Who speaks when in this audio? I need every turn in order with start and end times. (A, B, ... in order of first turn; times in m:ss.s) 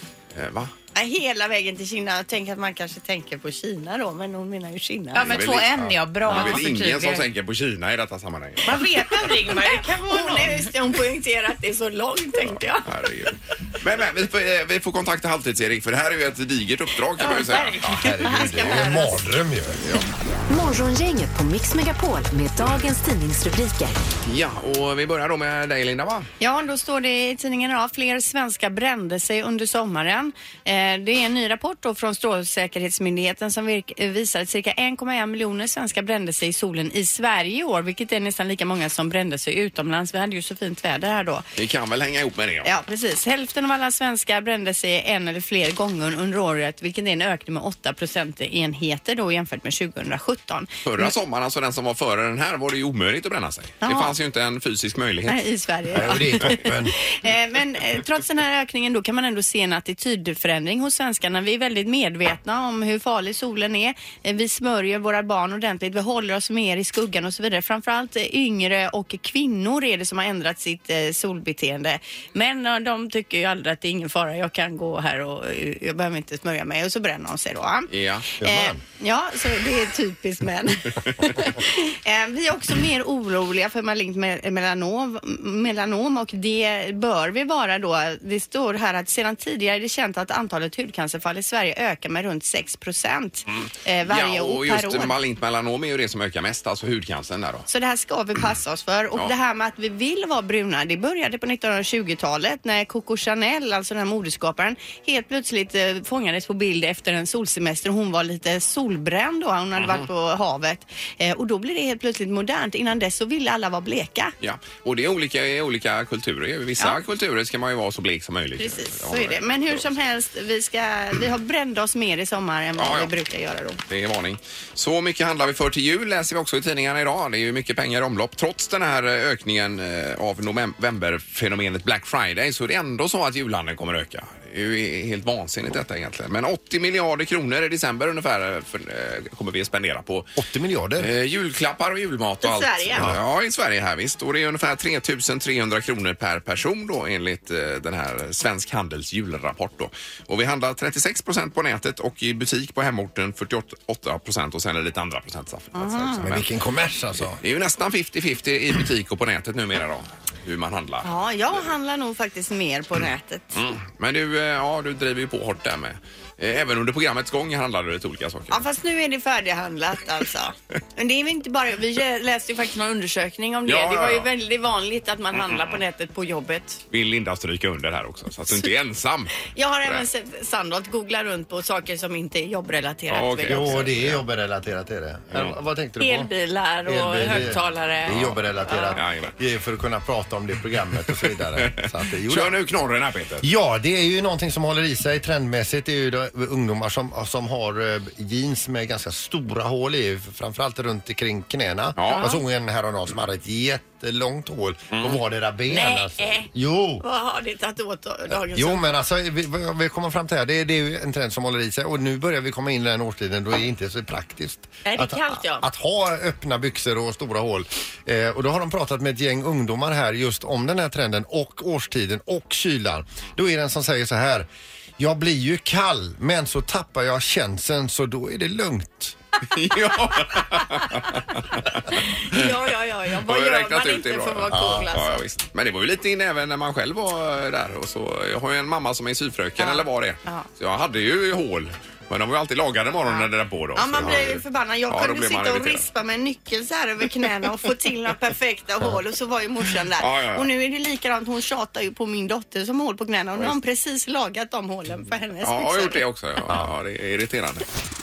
0:00.3-0:00.7 A
0:00.9-0:05.4 B
0:05.1-0:07.3 C
0:05.3-0:05.7 A
0:06.2-0:08.7 A
0:06.3-0:06.6 B
0:08.6-0:10.7 C
0:08.6-0:12.8 B
0:12.8-0:18.0 A
0:17.2-0:19.2 B
0:17.9-0:19.8 D
0:19.8-0:20.1 A
0:20.5-0:24.0 E
0:24.2-0:26.3 A
0:26.4-0:41.4 B
0:41.6-0:42.7 A
0:42.6-0:51.1 B
0:50.8-0:55.4 A
0:53.8-0:54.1 B
0:55.3-1:35.1 B
0:55.9-0:56.9 D
1:17.9-1:18.2 A
1:18.4-1:18.8 D
1:33.5-1:37.6 A
1:37.7-1:54.3 B
1:49.8-1:50.0 A
1:54.4-1:59.9 A
1:58.6-2:03.8 B
2:02.8-2:03.1 A
2:03.9-2:20.3 A
2:20.4-2:21.1 D
2:21.0-2:36.5 A
2:22.4-2:23.1 B
2:35.7-2:36.2 B
2:36.2-2:37.4 D
2:37.2-2:41.6 A
2:41.0-2:43.6 B
2:43.5-2:48.6 A
2:48.5-2:56.8 B
2:53.6-2:54.3 A
2:55.4-2:55.8 A
2:56.9-3:00.0 A
2:59.5-3:03.9 B
3:03.1-3:04.2 A
3:03.5-3:06.3 D
3:06.0-3:09.0 B
3:06.8-3:12.5 D
3:08.1-3:08.4 A
3:09.0-3:09.3 A
3:11.6-3:13.4 A
3:13.4-3:27.0 D
3:22.0-3:22.3 A
3:22.0-3:22.4 B
3:25.7-3:26.5 B
3:27.0-3:29.0 B
3:28.3-3:44.5 D
3:34.8-3:35.7 B
3:45.0-3:49.2 D
3:49.5-3:51.8 A
3:51.9-3:55.3 B
3:53.2-4:05.8 A
3:54.5-3:54.9 D
3:59.6-4:00.5 B
4:03.1-4:16.0 B
4:10.0-4:10.4 A
4:15.4-4:17.6 A